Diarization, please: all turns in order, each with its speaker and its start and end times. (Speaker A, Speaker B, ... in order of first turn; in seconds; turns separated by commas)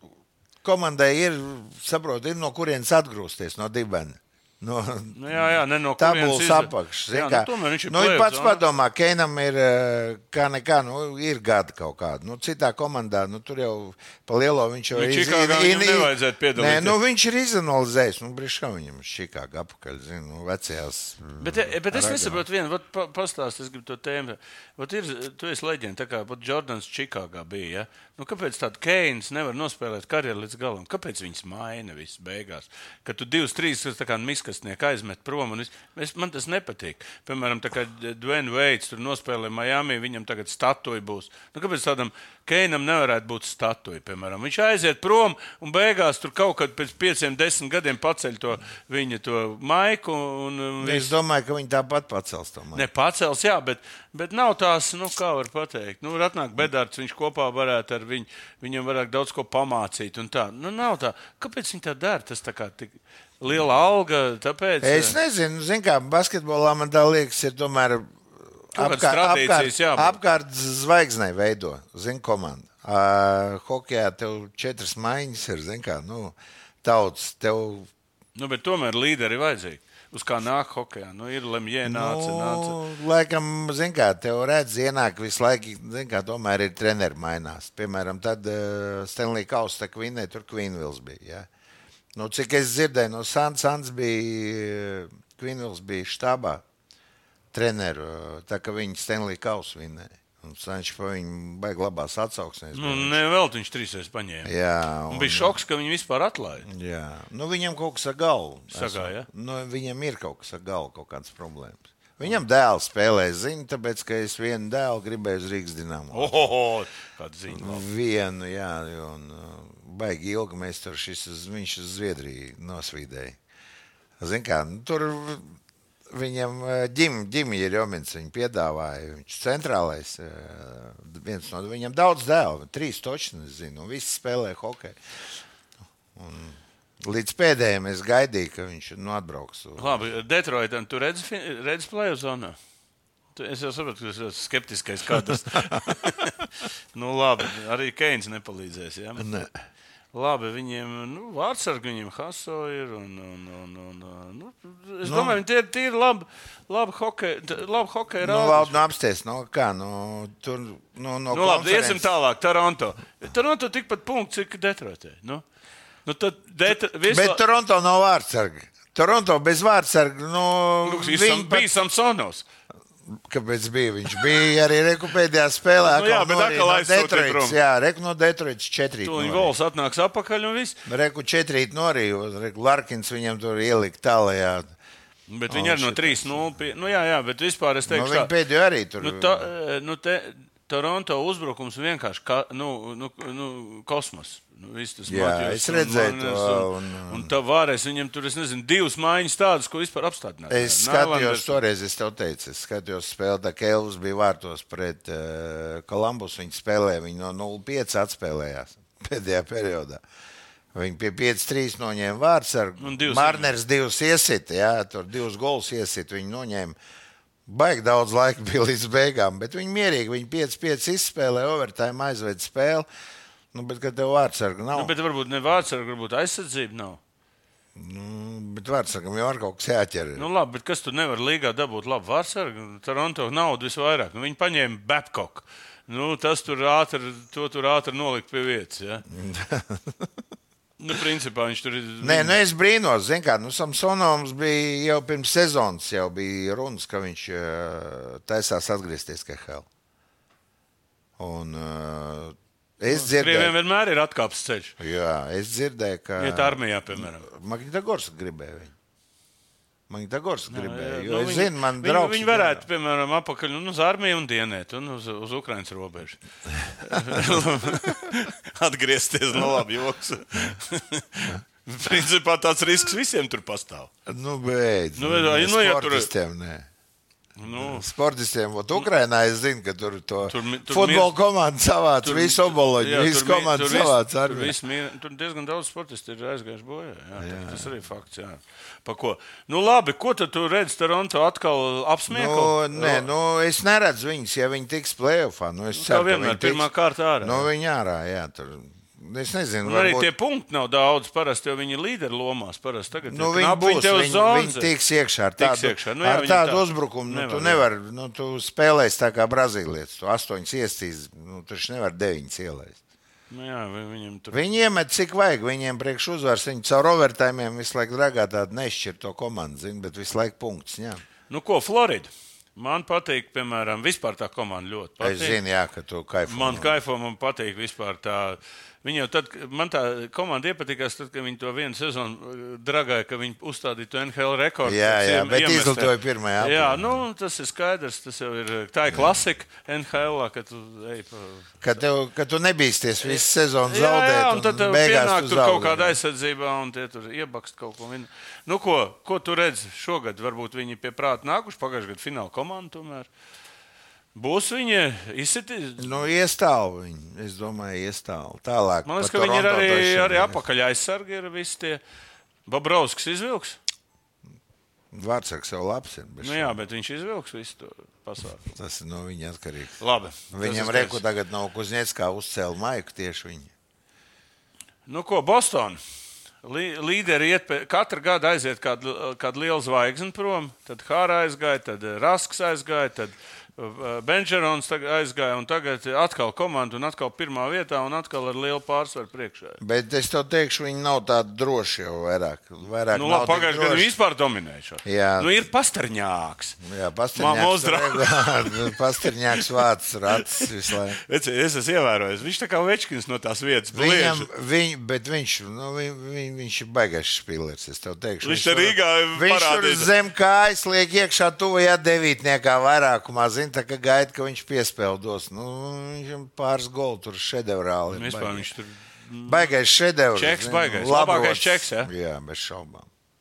Speaker A: 0.6-22.4, Speaker B: 5.1-8.6, Speaker B: 14.9-17.0, Speaker B: 21.4-51.1, Speaker A: 50.8-52.9, Speaker B: 52.7-65.2, Speaker A: 64.8-68.2, Speaker A: 68.7-77.9, Speaker B: 68.8-70.2, Speaker B: 78.3-82.8, Speaker A: 81.8-91.5, Speaker A: 92.2-96.6, Speaker A: 97.5-103.2, Speaker B: 102.7-104.5, Speaker A: 104.5-105.6, Speaker B: 105.1-106.7, Speaker A: 106.7-116.5, Speaker B: 108.7-109.3, Speaker B: 116.1-117.8, Speaker A: 117.5-123.4, Speaker A: 124.2-125.5, Speaker A: 126.1-135.0, Speaker A: 136.2-140.0, Speaker B: 139.8-142.6, Speaker B: 143.3-149.3, Speaker A: 149.2-149.5, Speaker B: 150.1-158.9, Speaker A: 155.0-155.4, Speaker A: 158.2-162.1, Speaker B: 161.3-165.4, Speaker B: 166.1-167.4, Speaker A: 167.0-171.7, Speaker B: 170.8-172.5, Speaker A: 173.1-179.5, Speaker B: 175.8-177.6, Speaker B: 179.0-180.8, Speaker A: 180.9-184.7, Speaker B: 185.3-188.3, Speaker A: 185.5-186.5, Speaker A: 187.9-189.5, Speaker B: 189.0-201.6, Speaker A: 195.1-197.3, Speaker A: 200.5-210.0, Speaker A: 210.7-216.8, Speaker B: 212.8-213.6, Speaker A: 217.5-222.9, Speaker A: 223.5-224.9, Speaker B: 224.7-227.0, Speaker A: 227.8-230.3, Speaker B: 230.2-239.1, Speaker A: 239.1-240.1, Speaker B: 240.8-242.4, Speaker A: 242.0-249.7, Speaker A: 251.2-253.5, Speaker B: 252.9-254.8, Speaker A: 254.8-258.7, Speaker B: 256.2-257.3, Speaker A: 259.9-262.6, Speaker B: 260.5-266.2, Speaker B: 266.8-273.9, Speaker A: 266.9-267.9, Speaker A: 274.1-276.7, Speaker B: 275.0-276.1, Speaker B: 277.4-277.9, Speaker A: 277.5-284.6, Speaker B: 280.3-281.1, Speaker B: 282.0-293.1, Speaker A: 287.2-287.7, Speaker A: 292.1-296.7, Speaker B: 295.7-297.5, Speaker A: 297.2-300.1, Speaker B: 299.6-304.7, Speaker A: 303.1-312.8, Speaker B: 305.4-307.6, Speaker B: 313.3-314.4, Speaker A: 314.3-321.0, Speaker B: 321.3-325.4, Speaker A: 325.0-326.8, Speaker B: 326.3-341.6, Speaker A: 334.6-337.0, Speaker A: 341.6-346.0, Speaker B: 343.0-353.1, Speaker B: 354.1-356.1, Speaker A: 355.8-360.4, Speaker B: 358.9-361.8, Speaker B: 362.5-363.6, Speaker A: 364.9-366.6, Speaker B: 366.2-368.4, Speaker A: 368.5-369.8, Speaker B: 369.8-371.0, Speaker A: 370.3-373.5, Speaker B: 374.9-375.8, Speaker B: 376.4-389.6, Speaker A: 389.6-393.9, Speaker B: 392.9-396.6, Speaker A: 394.8-395.3, Speaker A: 396.6-401.0, Speaker B: 397.1-398.7, Speaker B: 400.2-400.5, Speaker B: 401.0-404.3, Speaker A: 403.7-418.5, Speaker B: 408.2-409.9, Speaker B: 417.9-419.5, Speaker A: 419.3-422.9, Speaker B: 420.1-421.9